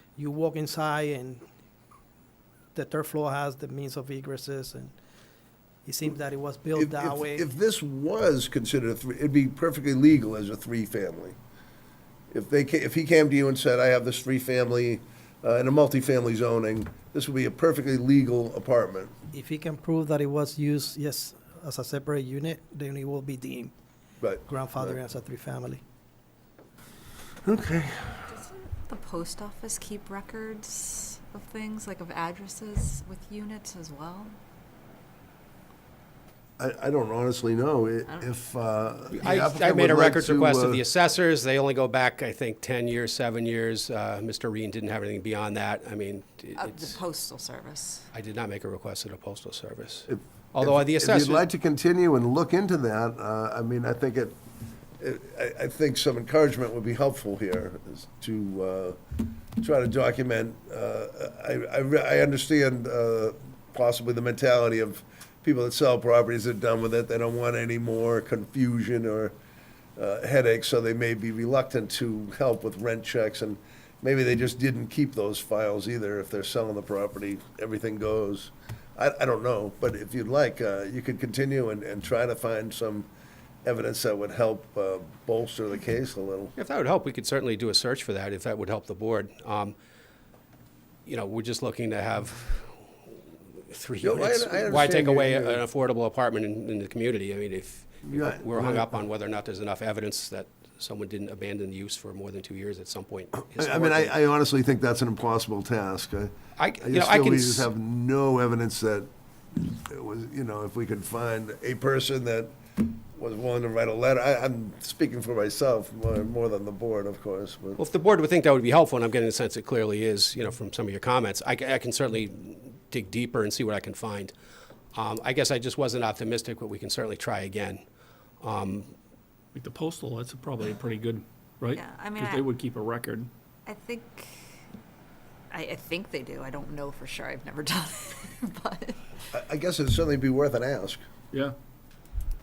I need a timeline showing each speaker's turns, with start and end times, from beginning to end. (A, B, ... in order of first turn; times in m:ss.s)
0:00.2-0:01.4 A
0:02.7-0:04.9 A
0:05.8-0:07.4 A
0:06.8-0:11.4 B
0:12.3-0:19.1 B
0:19.3-0:23.7 A
0:24.2-0:25.0 B
0:24.4-0:25.8 A
0:27.4-0:28.2 B
0:28.2-0:34.4 C
0:36.6-0:40.8 B
0:39.1-0:47.0 D
0:46.6-0:48.1 C
0:48.1-0:51.4 D
0:50.1-0:54.4 B
0:55.0-0:59.0 B
0:59.6-1:09.3 B
1:10.0-1:23.1 B
1:23.6-1:26.5 B
1:26.6-1:29.7 D
1:31.0-1:32.7 D
1:33.7-1:44.1 D
1:34.0-1:35.6 B
1:38.0-1:39.0 B
1:43.6-1:57.8 B
1:46.6-1:47.7 D
1:57.8-2:04.3 D
2:04.9-2:07.8 D
2:08.4-2:08.9 D
2:09.5-2:13.3 E
2:11.7-2:12.5 C
2:13.6-2:14.6 C
2:15.5-2:19.3 C
2:19.3-2:21.0 B